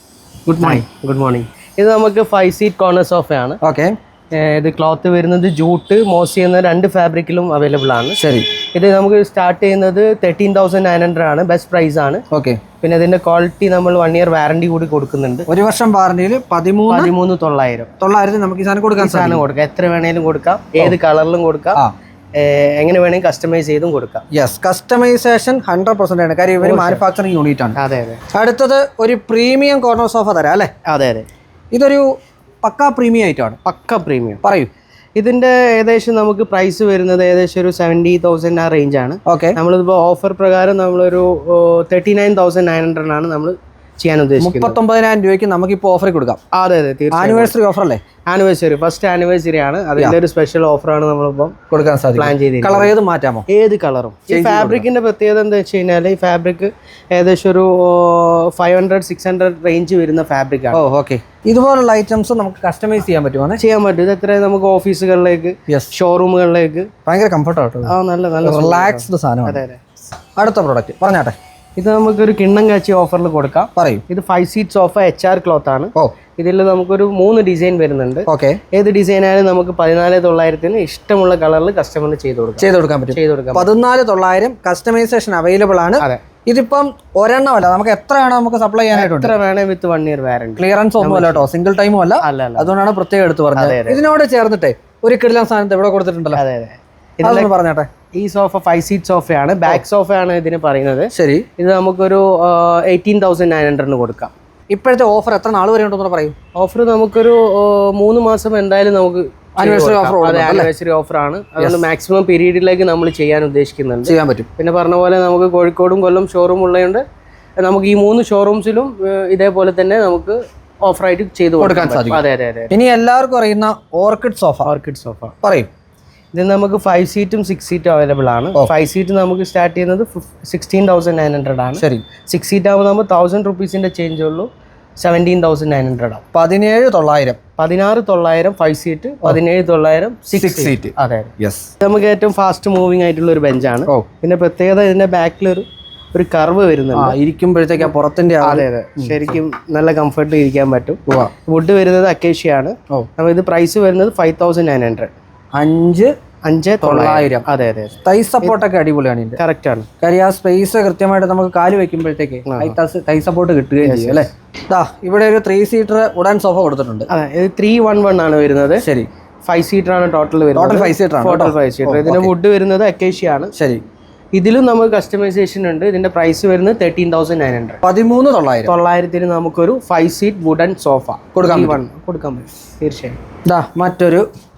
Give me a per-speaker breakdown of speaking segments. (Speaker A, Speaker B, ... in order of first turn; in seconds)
Speaker A: 0.5-3.6, 4.3-8.2, 8.7-12.2, 12.8-15.5, 16.9-17.9, 19.0-21.8, 22.3-24.2, 26.6-27.0, 27.8-28.2, 30.9-31.3, 33.6-34.4, 35.1-44.8, 46.5-47.5, 48.3-51.5, 52.1-52.9, 53.5-60.8, 63.6-66.9, 67.8-69.8, 71.8-83.7, 88.9-91.4, 92.2-92.7, 93.5-94.0, 96.3-97.5, 98.1-104.3, 106.5-117.0, 117.6-122.7, 124.6-125.3, 126.3-136.2, 137.6-147.2, 148.4-155.1, 156.4-158.5, 159.4-159.9, 162.4-162.8, 163.8-164.3, 167.1-168.8, 169.4-173.5, 174.3-177.8, 178.7-183.2
Speaker B: 3.6-3.9, 8.2-8.5, 12.3-12.6, 15.5-17.1, 18.0-19.4, 24.3-27.8, 28.3-30.7, 31.7-32.1, 32.6-33.6, 34.4-34.7, 39.2-39.6, 44.4-46.4, 47.1-48.0, 51.7-53.5, 54.3-54.8, 60.7-63.6, 67.0-67.9, 68.4-69.6, 70.4-71.3, 73.8-74.0, 78.3-78.6, 82.6-89.3, 90.6-96.4, 97.2-97.9, 101.1-101.5, 104.7-106.3, 109.6-110.7, 114.0-114.5, 121.6-124.7, 125.4-125.7, 131.8-132.1, 136.3-137.4, 140.3-141.7, 146.9-149.2, 151.1-151.3, 155.5-156.1, 156.8-157.4, 158.0-159.4, 160.0-167.1, 168.8-169.1, 170.5-172.3, 173.5-173.8, 177.8-178.7, 181.3-181.8, 183.4-184.2